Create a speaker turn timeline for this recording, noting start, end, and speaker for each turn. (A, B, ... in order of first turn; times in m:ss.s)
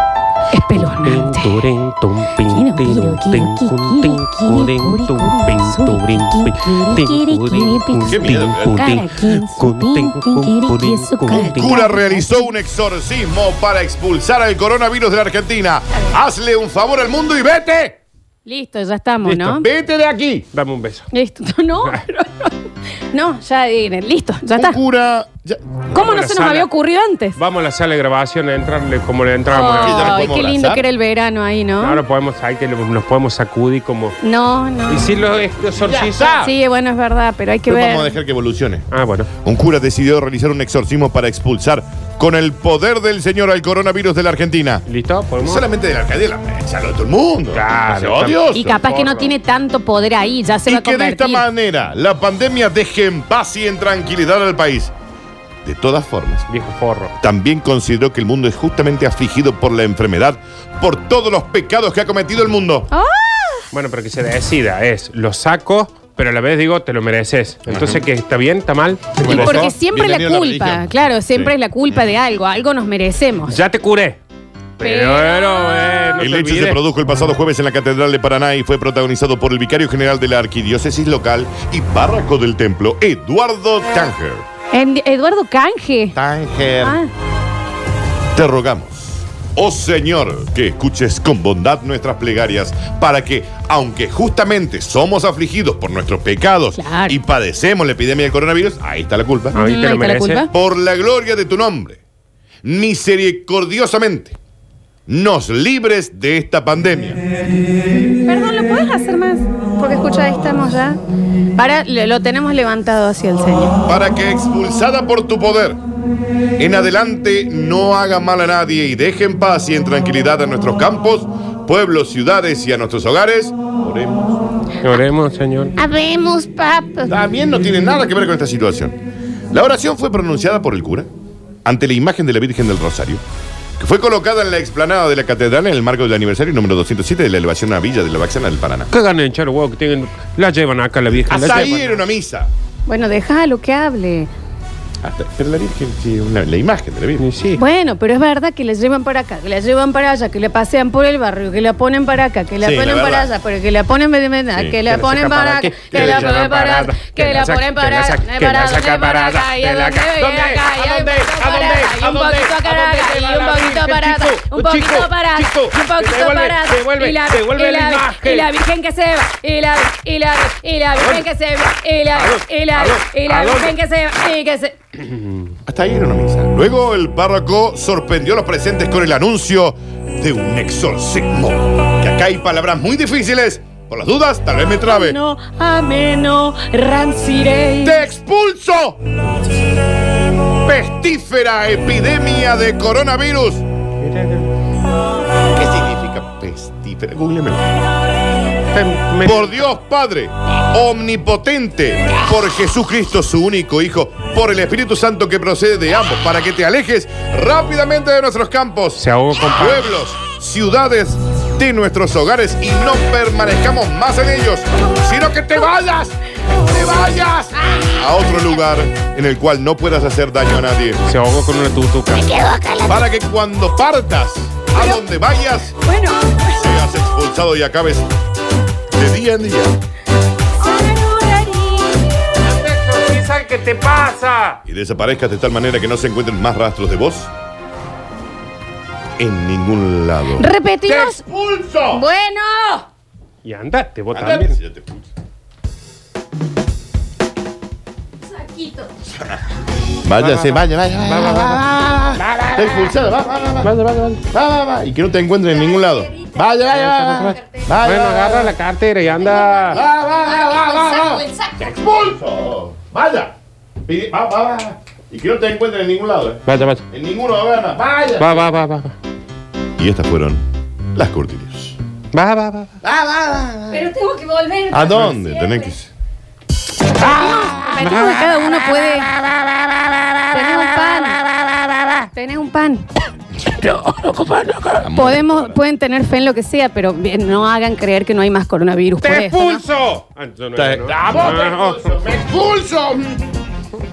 0:00.5-0:01.6 A
0:00.7-0:11.8 B
0:02.5-0:12.5 A
0:08.1-0:09.0 C
0:11.3-0:18.0 C
0:18.4-0:19.6 A
0:19.2-0:20.5 C
0:20.5-0:21.1 B
0:21.1-0:22.6 A
0:23.1-0:24.8 A
0:24.5-0:25.9 C
0:25.9-0:26.7 B
0:25.9-0:27.4 A
0:27.4-0:30.3 B
0:29.5-0:32.0 A
0:29.7-0:30.8 C
0:31.8-0:34.2 B
0:34.2-0:35.1 A
0:34.9-0:36.5 B
0:35.7-0:36.5 C
0:36.4-0:38.1 A
0:37.7-0:38.9 C
0:38.9-0:39.3 B
0:39.4-0:44.8 C
0:44.8-0:45.6 B
0:45.4-0:48.8 C
0:47.5-0:49.4 B
0:48.5-0:51.4 A
0:50.7-0:54.9 C
0:55.6-0:56.5 C
0:56.5-0:57.1 B
0:57.2-1:02.9 C
1:02.9-1:03.7 A
1:03.7-1:09.7 B
1:07.7-1:08.0 C
1:09.2-1:12.1 C
1:09.2-1:13.6 A
1:13.4-1:14.2 B
1:14.8-1:16.8 B
1:14.8-1:16.2 A
1:16.2-1:24.4 C
1:24.7-1:26.2 A
1:26.1-1:27.0 C
1:26.8-1:27.1 A
1:28.3-1:39.6 C
1:36.8-1:37.2 A
1:39.5-1:40.5 B
1:39.5-1:40.5 A
1:40.5-1:42.0 C
1:42.6-1:44.4 C
1:45.1-1:47.2 C
1:48.2-1:51.0 A
1:51.6-1:53.8 A
1:53.8-1:55.8 C
1:56.6-2:04.4 C
2:04.8-2:05.7 B
2:05.8-2:07.2 A
2:07.1-2:09.0 C
2:09.5-2:11.1 C
2:11.6-2:13.2 C
2:13.8-2:18.9 C
2:18.9-2:22.0 B
2:21.1-2:22.5 C
2:22.8-2:24.3 A
2:25.0-2:27.3 C
2:27.2-2:27.6 B
2:27.5-2:54.8 A
2:32.6-2:33.3 C
2:34.8-2:48.5 B
2:35.9-2:36.4 C
2:51.0-2:51.2 B
2:52.1-2:53.8 B
2:55.7-3:05.2 C
3:04.8-3:08.0 A
3:07.8-3:09.0 C
3:10.6-3:13.6 C
3:14.0-3:14.5 B
3:15.5-3:17.7 C
3:18.7-3:19.5 B
3:19.2-3:41.0 C
3:29.0-3:29.9 B
3:41.0-3:42.3 B
3:42.1-3:43.0 A
3:42.9-3:45.8 C
3:44.7-3:45.0 A
3:45.8-3:46.8 A
3:46.5-3:48.1 C
3:48.9-3:49.7 C
3:50.6-3:52.2 A
3:52.4-3:54.6 B
3:54.6-3:57.3 C
3:59.2-4:02.0 C
4:00.4-4:01.2 A
4:01.9-4:02.8 A
4:03.4-4:04.6 B
4:04.1-4:05.1 C
4:08.3-4:08.9 A
4:09.1-4:09.4 C
4:10.0-4:13.7 C
4:10.2-4:12.9 B
4:13.6-4:14.2 B
4:14.3-4:18.5 C
4:16.1-4:16.4 A
4:16.6-4:19.8 B
4:19.4-4:21.7 A
4:19.7-4:23.3 C
4:23.8-4:28.5 C
4:26.4-4:26.8 B
4:28.1-4:28.9 B
4:29.8-4:30.4 C
4:30.9-4:31.8 C
4:32.1-4:32.7 B
4:32.8-4:33.9 C
4:33.7-4:35.7 A
4:34.7-4:35.9 C
4:37.0-4:39.1 A
4:40.3-4:41.2 A
4:42.1-4:42.8 A
4:43.7-4:44.2 A
4:44.7-4:45.6 C
4:44.8-4:49.6 A
4:49.0-4:51.9 B
4:50.5-4:53.2 C